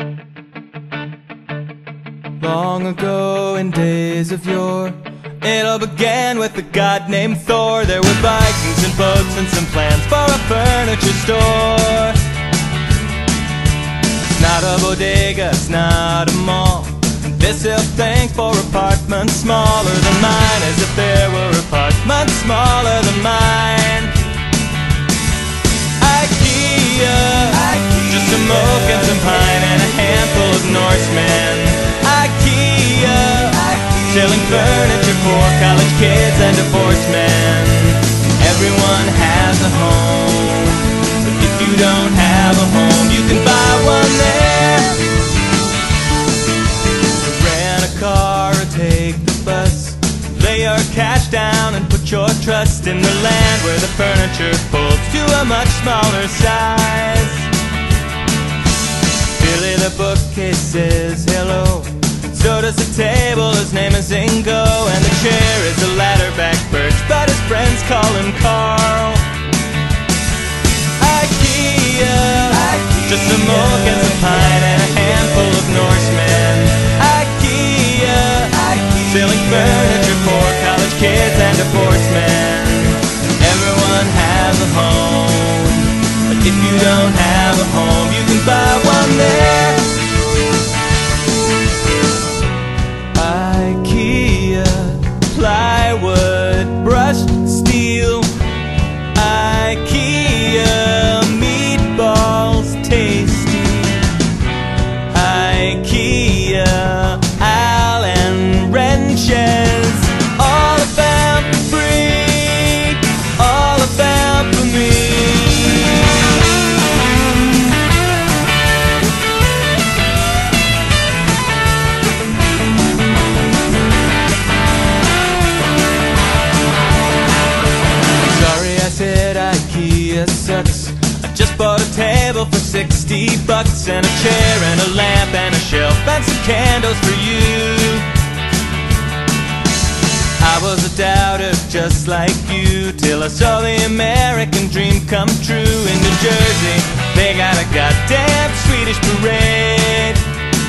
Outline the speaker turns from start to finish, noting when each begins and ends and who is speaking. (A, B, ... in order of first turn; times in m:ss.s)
0:02.4-0:12.2 A
0:14.4-0:24.2 A
0:26.0-0:45.1 A
0:47.2-0:57.5 A
0:59.4-1:09.4 A
1:11.0-1:29.9 A
1:33.1-1:38.3 A
1:39.1-1:44.1 A
1:45.1-1:56.6 A
2:08.3-2:18.1 A
2:20.4-2:30.2 A